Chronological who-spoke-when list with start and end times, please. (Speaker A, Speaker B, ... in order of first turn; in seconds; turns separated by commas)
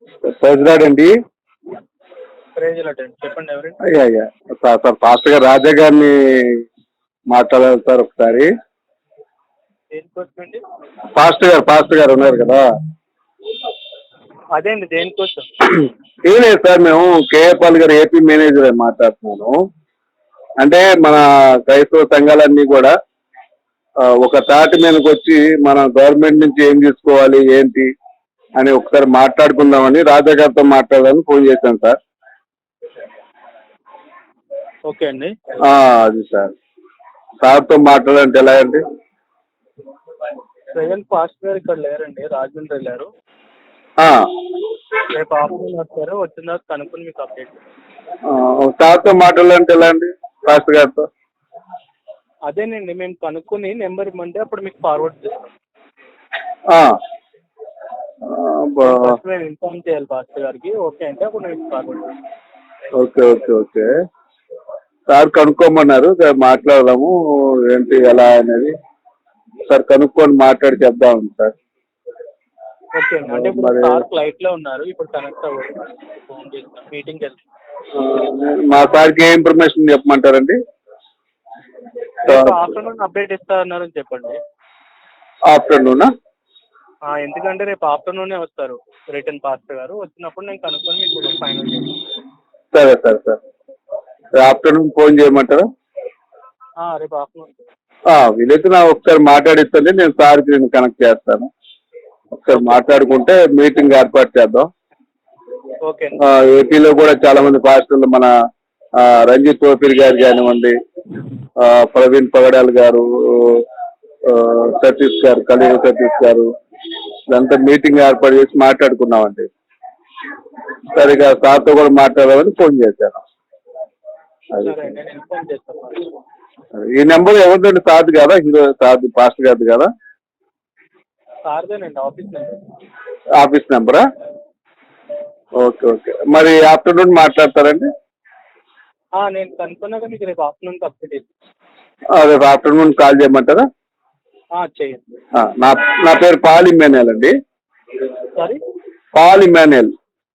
Speaker A: 0.2-1.1, Speaker B: 2.6-3.8, Speaker A: 3.9-6.1, Speaker A: 7.3-8.5, Speaker B: 9.9-10.6, Speaker A: 11.2-12.6, Speaker B: 14.6-15.4, Speaker A: 16.3-19.5, Speaker A: 20.6-22.9, Speaker A: 24.1-27.9, Speaker A: 28.6-31.9, Speaker B: 34.9-35.3, Speaker A: 35.6-36.5, Speaker A: 37.4-38.8, Speaker B: 40.7-43.1, Speaker B: 45.1-47.6, Speaker A: 48.3-51.0, Speaker B: 52.5-55.5, Speaker A: 58.3-59.1, Speaker B: 58.8-62.1, Speaker A: 63.0-63.9, Speaker A: 65.1-67.1, Speaker A: 67.7-68.7, Speaker A: 69.7-71.5, Speaker B: 72.9-77.4, Speaker A: 73.3-74.0, Speaker A: 78.0-80.5, Speaker B: 82.2-84.4, Speaker A: 82.3-82.6, Speaker A: 85.5-86.1, Speaker B: 87.1-91.9, Speaker A: 92.7-93.4, Speaker A: 94.4-95.6, Speaker B: 96.8-97.6, Speaker A: 98.1-101.5, Speaker A: 102.4-104.7, Speaker B: 102.5-102.8, Speaker B: 105.8-106.2, Speaker A: 106.2-108.3, Speaker A: 109.0-110.7, Speaker A: 111.6-113.6, Speaker A: 114.3-116.5, Speaker A: 117.3-119.5, Speaker A: 120.9-123.2, Speaker B: 124.6-126.0, Speaker A: 126.8-129.9, Speaker B: 131.4-132.6, Speaker A: 133.4-134.0, Speaker A: 135.6-137.8, Speaker B: 139.2-141.2, Speaker A: 142.2-143.6, Speaker B: 144.6-145.0, Speaker A: 145.3-147.3, Speaker B: 148.3-148.6, Speaker A: 149.1-149.9